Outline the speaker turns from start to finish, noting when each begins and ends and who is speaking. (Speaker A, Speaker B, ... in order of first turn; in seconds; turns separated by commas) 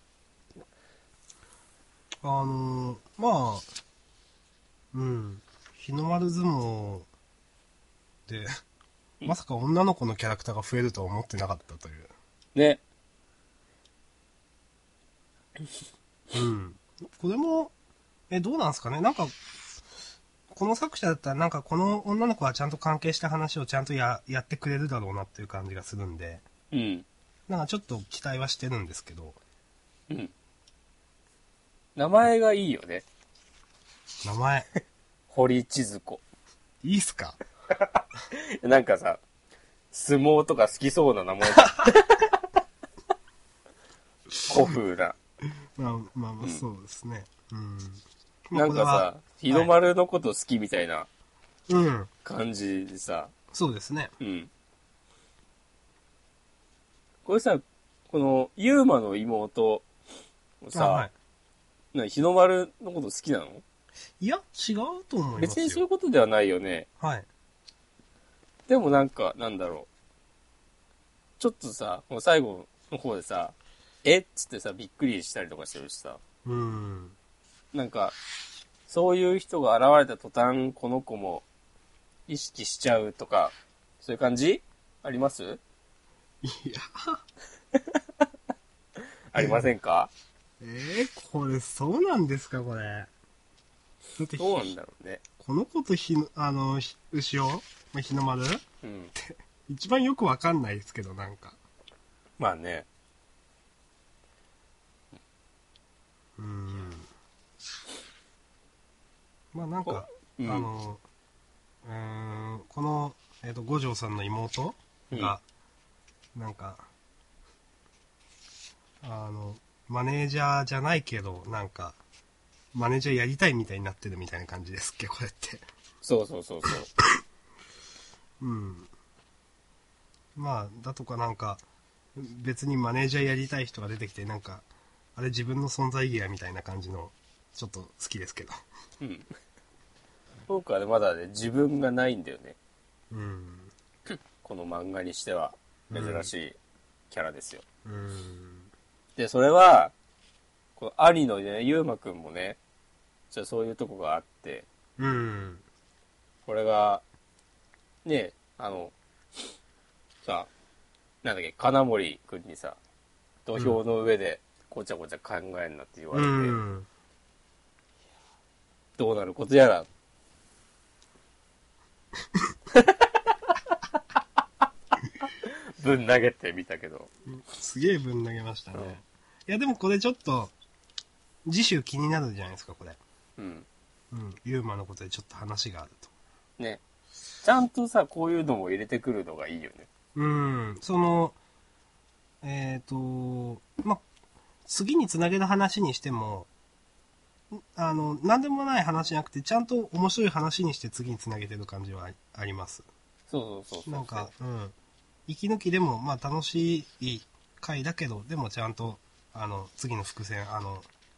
Speaker A: 2.2-3.7, Speaker A: 4.9-7.1, Speaker A: 8.3-8.6, Speaker A: 9.2-12.1, Speaker B: 12.5-12.8, Speaker A: 16.3-17.7, Speaker A: 18.3-19.4, Speaker A: 20.5-26.4, Speaker B: 26.7-27.1, Speaker A: 27.5-29.4, Speaker B: 31.9-33.0, Speaker A: 34.2-34.7, Speaker B: 35.3-36.2, Speaker A: 36.8-37.4, Speaker B: 37.8-39.2, Speaker B: 39.9-42.4, Speaker A: 41.6-41.9, Speaker B: 44.4-45.2, Speaker A: 45.8-49.7, Speaker B: 48.5-51.1, Speaker A: 51.7-52.1, Speaker B: 52.2-53.3, Speaker A: 53.5-54.1, Speaker B: 54.2-54.5, Speaker B: 57.2-59.8, Speaker B: 60.6-61.0, Speaker A: 60.7-61.1, Speaker B: 61.9-63.6, Speaker A: 64.2-65.8, Speaker B: 65.4-66.9, Speaker A: 67.0-67.2, Speaker B: 68.7-69.9, Speaker B: 71.4-76.2, Speaker A: 76.4-77.1, Speaker B: 77.7-78.1, Speaker B: 78.9-81.4, Speaker B: 82.3-85.6, Speaker A: 86.4-87.2, Speaker B: 89.3-90.1, Speaker A: 89.3-89.7, Speaker A: 90.6-93.1, Speaker A: 94.2-94.7, Speaker B: 94.4-95.2, Speaker A: 95.4-98.6, Speaker B: 98.8-99.1, Speaker A: 99.1-101.6, Speaker B: 102.4-102.9, Speaker A: 106.4-107.1, Speaker A: 109.5-111.0, Speaker B: 109.8-110.7, Speaker A: 111.8-115.4, Speaker A: 116.3-116.8, Speaker A: 119.0-122.0, Speaker A: 122.7-125.6, Speaker B: 126.0-126.9, Speaker A: 128.4-128.9, Speaker A: 130.3-131.6, Speaker A: 132.2-138.6, Speaker B: 139.0-139.3, Speaker B: 140.5-142.6, Speaker A: 143.1-143.7, Speaker B: 144.4-146.6, Speaker A: 145.9-146.3, Speaker B: 147.1-147.6, Speaker A: 147.8-148.7, Speaker B: 149.2-149.9, Speaker B: 150.8-152.6, Speaker B: 153.3-154.7, Speaker A: 155.0-155.6, Speaker B: 156.4-157.0, Speaker B: 158.0-158.9, Speaker B: 160.2-160.5, Speaker B: 161.2-162.8, Speaker B: 163.4-166.6, Speaker A: 166.1-166.9, Speaker B: 169.0-169.9, Speaker B: 172.7-173.1, Speaker B: 175.2-177.1, Speaker A: 177.3-180.5, Speaker A: 181.4-183.0, Speaker B: 183.4-183.7, Speaker A: 184.1-186.1, Speaker B: 187.4-189.9, Speaker A: 190.1-191.4, Speaker A: 192.4-194.0, Speaker A: 194.7-196.5, Speaker A: 197.5-202.8, Speaker B: 203.3-204.3, Speaker A: 203.9-204.7, Speaker A: 205.3-210.9